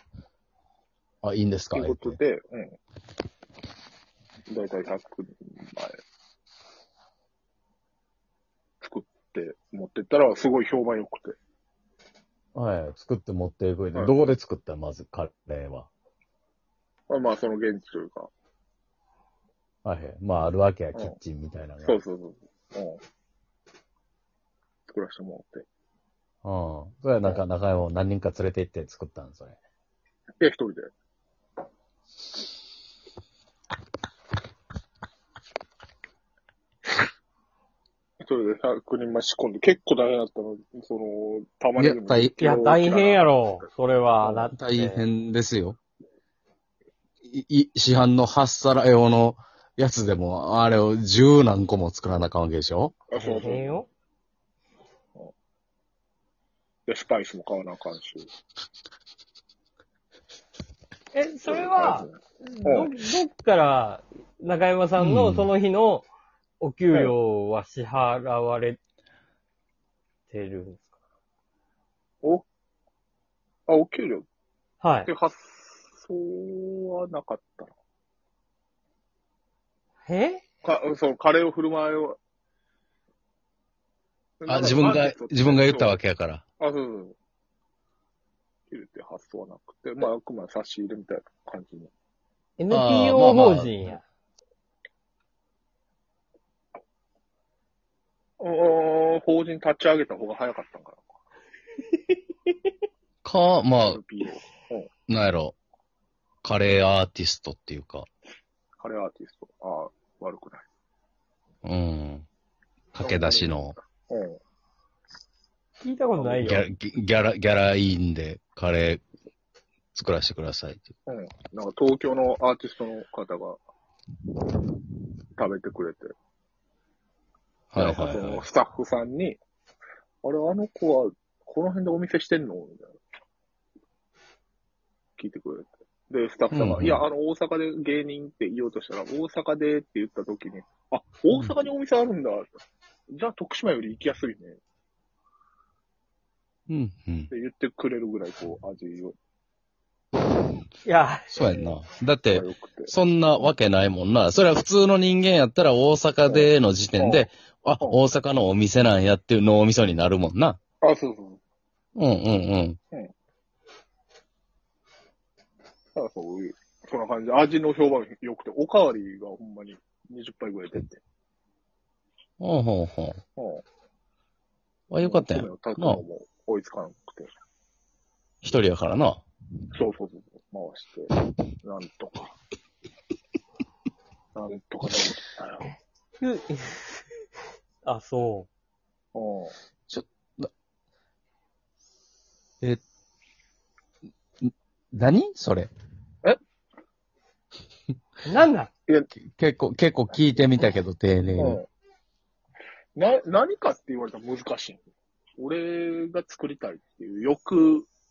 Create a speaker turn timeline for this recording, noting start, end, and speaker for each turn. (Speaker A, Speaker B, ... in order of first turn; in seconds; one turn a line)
Speaker A: 1.2-2.2
Speaker B: 1.7-2.8
Speaker B: 4.5-6.0
Speaker B: 8.8-11.3
Speaker A: 12.5-15.9
Speaker B: 17.1-18.3
Speaker A: 19.8-21.9
Speaker B: 21.8-23.0
Speaker B: 24.9-25.6
Speaker A: 26.4-29.6
Speaker B: 30.4-30.9
Speaker B: 38.2-43.7
Speaker A: 41.8-42.3
Speaker C: 42.4-45.0
Speaker B: 44.2-44.5
Speaker A: 44.5-45.8
Speaker A: 47.2-53.0
Speaker B: 53.1-53.8
Speaker C: 53.2-53.9
Speaker B: 56.9-58.3
Speaker C: 61.1-66.1
Speaker B: 61.4-62.9
Speaker A: 65.0-65.5
Speaker C: 66.6-68.8
Speaker C: 70.3-70.9
Speaker B: 73.7-74.2
Speaker C: 74.8-75.1
Speaker B: 75.0-77.7
Speaker C: 80.0-80.4
Speaker B: 80.6-82.2
Speaker B: 84.4-86.0
Speaker A: 84.5-86.4
Speaker B: 86.6-87.2
Speaker B: 88.7-91.9
Speaker C: 92.6-94.0
Speaker A: 92.7-93.7
Speaker B: 98.4-101.0
Speaker A: 103.2-104.0
Speaker B: 103.8-104.9
Speaker A: 105.1-105.5
Speaker A: 106.4-108.1
Speaker B: 108.8-110.7
Speaker A: 111.6-112.2
Speaker A: 112.9-113.8
Speaker B: 113.0-114.4
Speaker C: 115.8-116.6
Speaker B: 116.2-116.6
Speaker A: 116.4-119.0
Speaker A: 119.9-120.8
Speaker B: 121.0-123.6
Speaker B: 125.4-126.1
Speaker A: 127.7-128.4
Speaker B: 127.8-129.4
Speaker B: 130.2-132.9
Speaker B: 135.2-142.6
Speaker A: 136.5-137.0
Speaker B: 143.1-144.6
Speaker A: 146.7-147.3
Speaker B: 147.3-149.1
Speaker C: 150.8-151.3
Speaker A: 151.3-160.6
Speaker B: 152.3-152.9
Speaker B: 156.2-157.3
Speaker B: 160.8-161.4
Speaker A: 161.9-162.8
Speaker B: 165.9-171.0
Speaker A: 172.4-173.2
Speaker B: 173.4-173.6
Speaker A: 174.9-176.0
Speaker B: 175.0-177.3
Speaker A: 178.4-179.2
Speaker B: 179.7-181.1
Speaker B: 181.6-182.3
Speaker B: 184.3-185.7
Speaker C: 186.2-187.0
Speaker C: 187.8-188.5
Speaker B: 189.1-189.5
Speaker A: 189.9-190.5
Speaker A: 194.4-195.7
Speaker C: 198.2-198.7
Speaker A: 199.3-201.6
Speaker B: 201.3-201.7
Speaker B: 202.9-204.8
Speaker B: 205.4-207.9